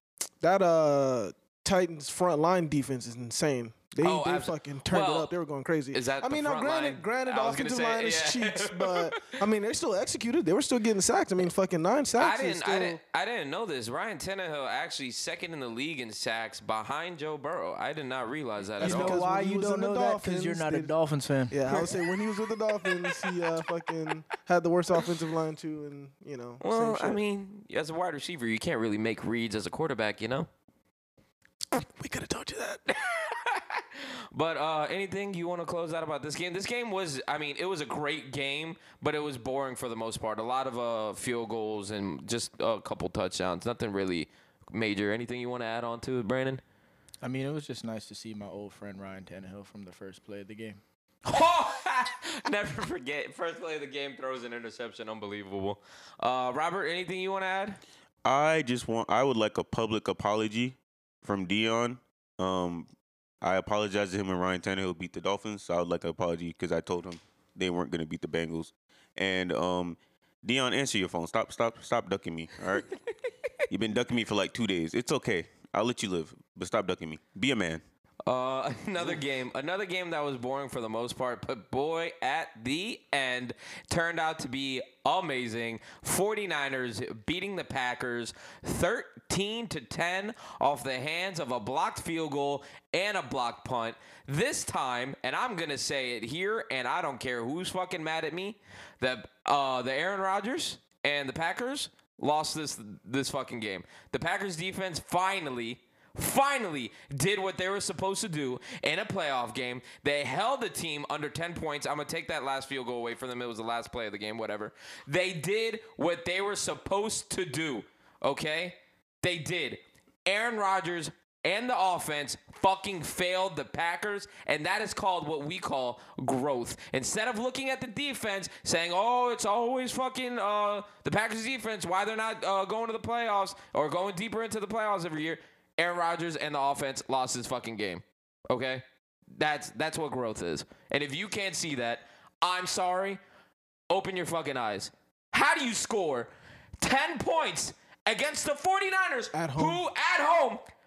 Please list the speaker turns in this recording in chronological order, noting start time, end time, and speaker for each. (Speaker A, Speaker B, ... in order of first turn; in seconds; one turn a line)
Speaker A: 0.4-13.0
Speaker B: 4.0-5.3
Speaker B: 5.9-9.4
Speaker B: 12.2-19.2
Speaker A: 18.8-20.9
Speaker C: 18.8-21.9
Speaker A: 21.5-27.2
Speaker B: 26.6-30.5
Speaker A: 31.8-32.8
Speaker B: 32.9-46.6
Speaker C: 47.2-50.8
Speaker B: 51.2-57.8
Speaker D: 58.2-62.9
Speaker D: 63.4-72.9
Speaker D: 73.7-77.8
Speaker B: 78.3-138.8
Speaker B: 139.3-143.2
Speaker B: 143.9-150.6
Speaker A: 149.3-149.8